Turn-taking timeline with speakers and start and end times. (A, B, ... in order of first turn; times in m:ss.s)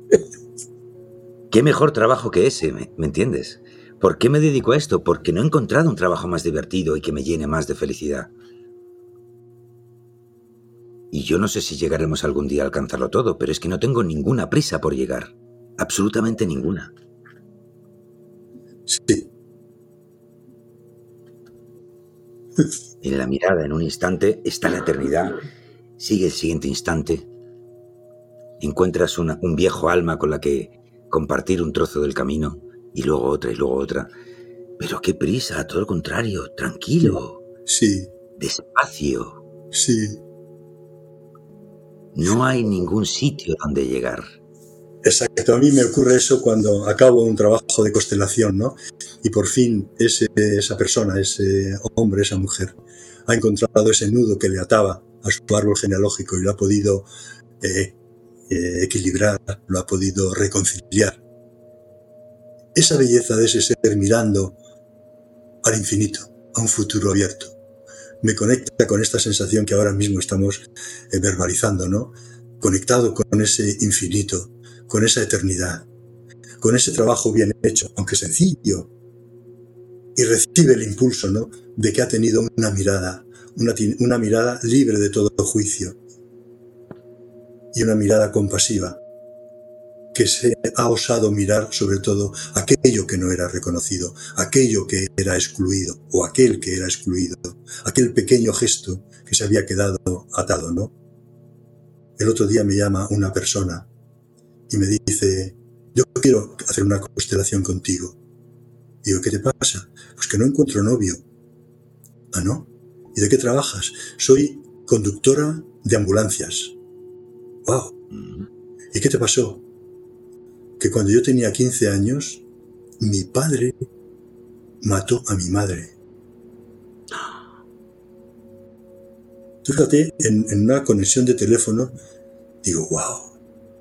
0:01.5-0:08.3 A
0:11.1-0:16.9 A
0:18.9-0:19.3 B
0:23.0-0:25.4 A
0:26.0-0:27.3 A
0:28.6-0:34.1 A
0:34.8-0:37.4 A
0:37.0-0:38.1 B
0:38.4-0:39.4 A
0:39.7-0:40.2 B
0:42.1-0:44.3 A
0:45.0-0:57.1 B
0:57.6-0:58.0 B
0:58.5-1:01.2 B
1:02.8-1:04.6 B
1:05.6-1:07.6 B
1:08.2-1:15.9 B
1:16.6-1:18.9 B
1:20.2-1:26.0 B
1:27.7-1:29.0 B
1:30.1-1:40.9 B
1:42.2-1:43.9 B
1:44.7-1:48.2 B
1:49.0-1:51.2 B
1:52.3-1:56.8 B
1:57.6-1:57.9 B
1:58.1-1:58.5 A
1:58.9-1:59.6 B
2:00.8-2:02.4 B
2:03.0-2:03.8 B
2:04.8-2:06.0 B
2:09.6-2:12.0 B
2:12.6-2:13.3 B